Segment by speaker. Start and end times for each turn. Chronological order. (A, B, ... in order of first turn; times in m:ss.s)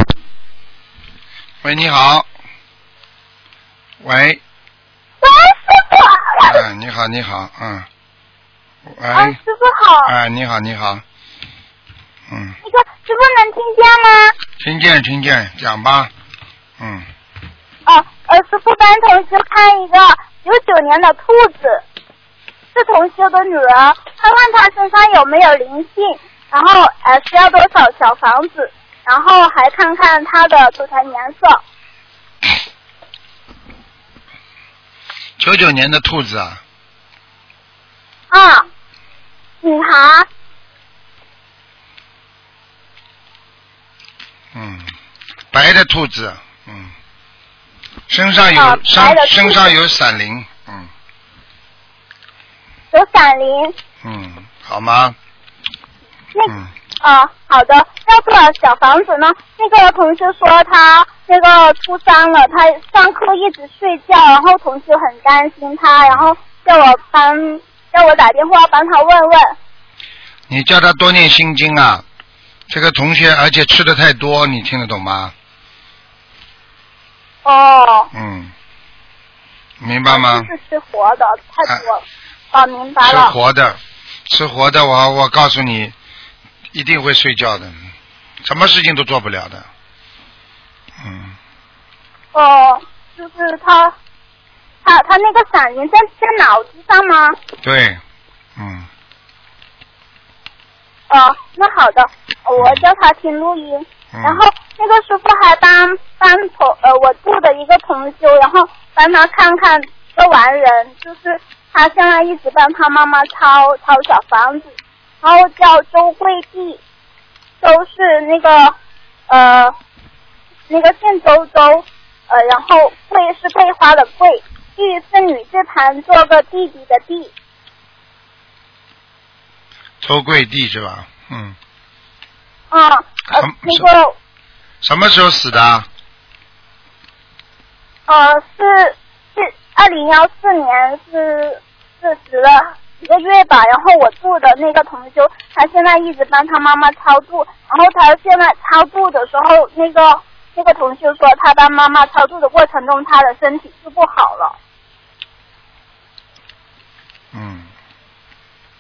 0:01.6-0:02.3 A
0:04.0-0:04.4 A
0:05.2-0:06.6 B
0:06.4-0:07.8 A
0:08.9-0:09.4 A
0:09.1-0:10.1 B
0:10.0-0:11.0 A
0:12.3-0:12.6 A
0:12.6-0:14.3 B
0:14.6-0:16.1 A
0:16.8-0:17.0 A
0:17.8-0:21.8 B
0:22.7-0:31.6 B
0:35.4-0:36.6 A
0:38.3-0:38.6 B
0:39.6-0:40.3 B
0:44.5-0:44.9 A
0:45.5-0:46.9 A
0:48.1-0:50.9 A
0:48.5-0:49.7 B
0:52.9-0:53.7 B
0:54.0-0:55.2 A
0:56.3-1:09.6 B
1:06.0-1:06.3 A
1:10.5-1:12.0 A
1:12.7-1:15.3 A
1:17.4-1:18.1 B
1:18.1-1:18.5 A
1:19.8-1:20.5 A
1:20.1-1:23.3 B
1:23.0-1:25.9 A
1:26.7-1:27.8 A
1:28.4-1:29.6 A
1:31.0-1:31.3 A
1:32.3-1:33.9 B
1:34.8-1:37.4 B
1:37.6-1:38.0 A
1:38.6-1:38.8 A
1:41.1-1:56.8 B
1:42.6-1:42.8 A
1:44.1-1:44.4 A
1:57.6-1:58.7 B
1:59.3-1:59.7 B
2:00.7-2:07.3 B
2:10.0-2:11.5 A
2:12.7-2:14.2 B
2:13.3-2:13.9 A
2:14.8-2:15.8 A
2:18.1-2:34.6 B
2:37.3-2:37.7 A